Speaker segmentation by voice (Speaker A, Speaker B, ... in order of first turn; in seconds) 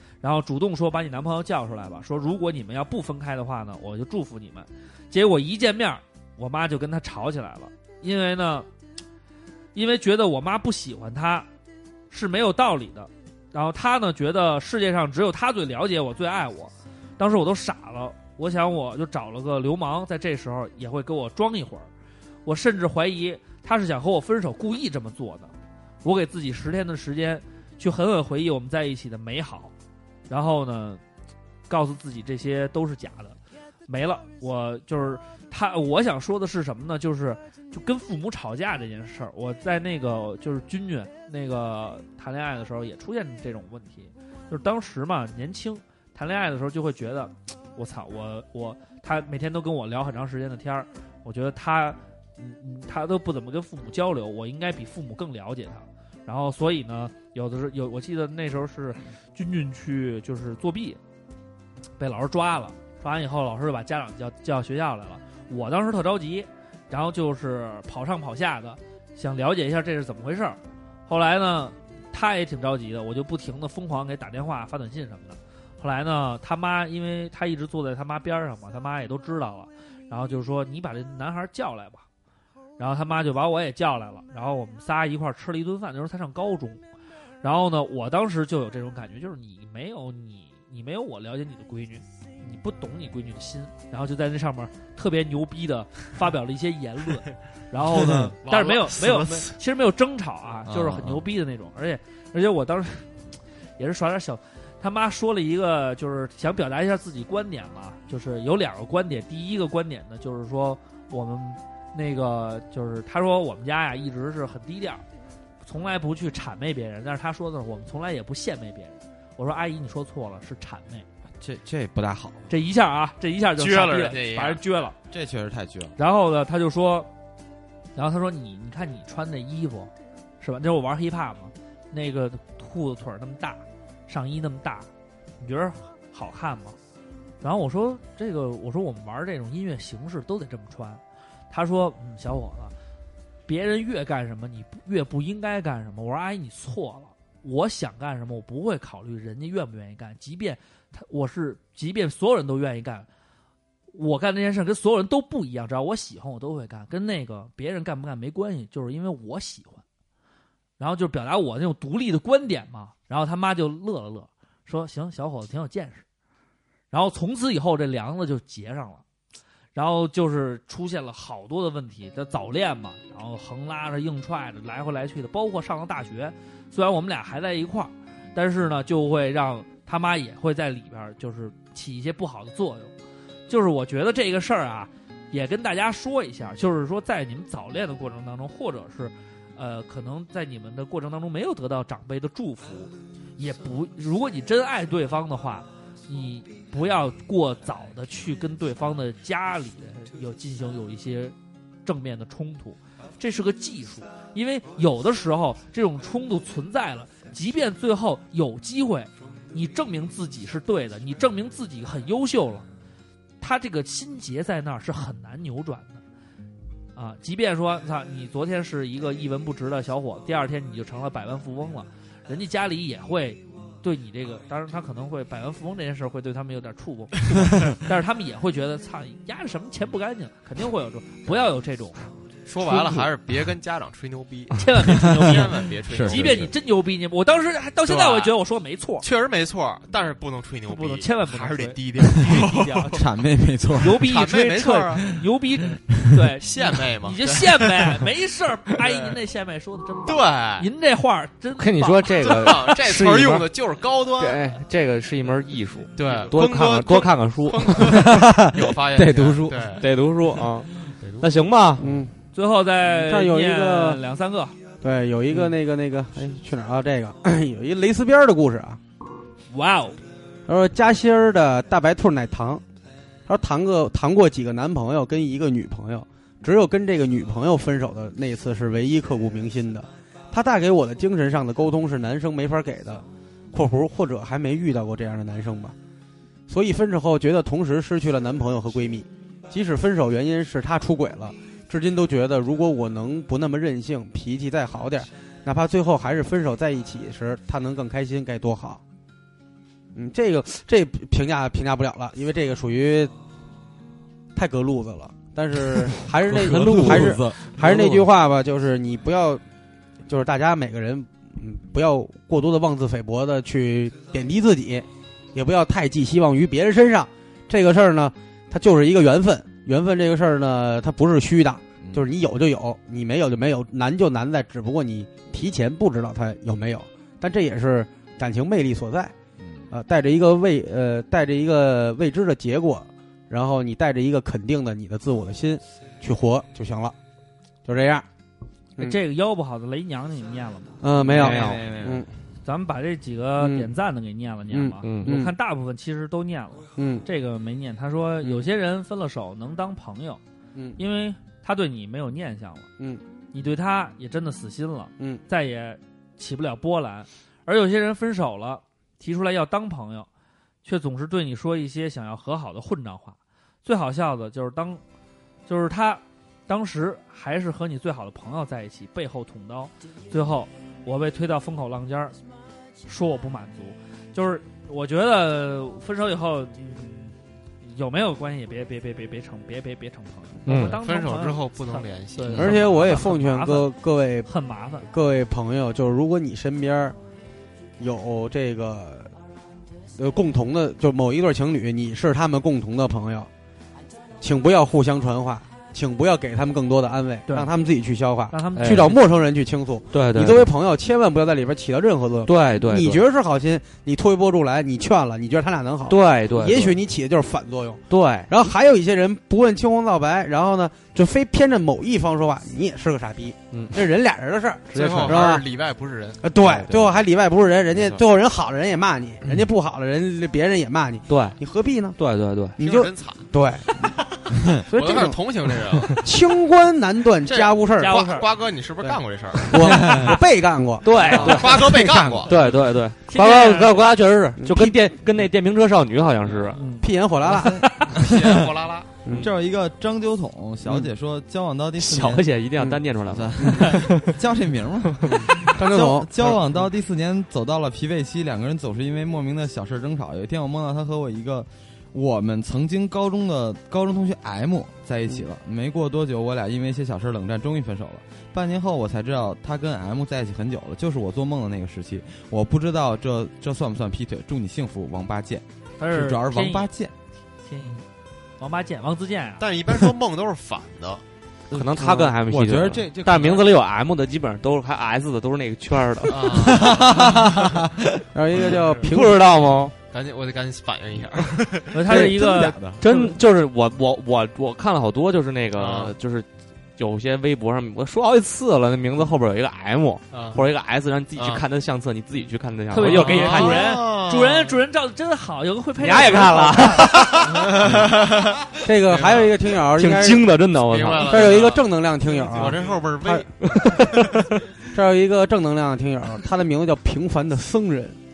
Speaker A: 0.2-8.7, 9.8-11.5, 12.1-21.9, 22.4-25.5, 26.0-29.7, 30.3-31.0, 31.7-61.0, 62.0-82.0, 82.8-86.8, 87.4-103.1, 103.8-115.0, 115.6-121.1, 122.5-125.0, 126.0-127.1, 128.0-134.9, 135.4-136.8, 137.4-142.7, 143.5-153.1, 153.9-159.8, 160.8-166.1, 166.9-169.0, 169.8-182.9, 183.5-212.7, 213.4-216.0, 217.0-232.0, 232.6-233.1, 234.5-239.1, 240.7-243.1, 243.8-252.3, 262.3-264.6, 269.5-270.0, 338.8-340.8, 342.4-350.2, 350.8-352.7, 353.3-360.1, 360.6-364.8, 365.5-372.1, 372.9-383.7, 384.3-384.9, 398.3-398.9, 427.8-428.3, 430.9-431.4, 433.1-433.7, 436.6-436.9, 437.6-437.9, 465.8-466.7, 467.4-467.8, 468.4-469.5, 481.7-483.1, 492.7-496.9
Speaker B: 97.9-98.2, 100.7-101.2, 121.4-122.5, 125.1-126.0, 234.9-235.2, 235.9-236.5, 242.9-244.1, 306.2-307.5, 321.8-322.1, 329.4-329.7, 341.0-342.1, 429.8-430.2, 437.2-438.5, 439.2-442.2, 443.1-466.9, 471.9-473.5, 476.3-477.7, 481.9-482.8
Speaker C: 98.4-99.5, 123.6-124.6, 232.4-236.5, 237.9-238.4, 239.0-243.0, 244.0-245.1, 246.4-248.0, 248.8-249.2, 250.1-250.7, 252.2-254.4, 256.0-259.9, 261.0-261.3, 380.5-383.0, 414.7-416.2, 422.6-426.1, 427.2-429.6, 431.1-432.4, 437.9-438.9, 469.4-471.0, 476.1-477.1, 478.6-478.8, 479.9-481.9, 485.5-485.9, 490.1-490.4, 491.1-491.4, 492.8-494.6, 497.2-499.4, 500.6-503.3
Speaker D: 251.6-253.5, 254.2-261.8, 306.3-308.1, 341.1-341.6, 344.8-345.1, 380.5-380.8, 398.6-399.0, 399.9-400.5, 402.3-403.0, 405.9-406.8, 407.9-408.3, 414.7-415.2, 416.4-416.9, 421.1-421.4, 422.0-422.6, 430.8-431.8, 432.3-436.6, 441.8-444.1, 471.5-477.3, 478.4-479.7, 482.8-486.3, 486.8-493.7, 495.8-497.5, 499.8-501.4, 503.4-504.4
Speaker E: 261.8-262.1, 262.9-264.0, 264.8-268.8, 270.5-272.6, 273.3-285.8, 286.5-298.8, 299.9-303.1, 304.4-309.4, 310.1-329.1, 329.7-336.9, 337.7-338.1, 340.8-342.1, 343.4-343.7, 344.5-345.3, 346.8-347.1, 382.3-384.3, 384.9-387.0, 387.8-389.1, 390.0-393.3, 394.2-415.4, 416.2-422.0, 422.6-423.9, 424.7-425.2, 425.9-428.0, 428.8-432.3, 434.4-434.8, 436.8-437.6, 443.4-443.7, 445.1-446.5, 471.8-472.1, 478.1-479.1, 498.6-500.3, 500.9-503.3, 504.7-508.0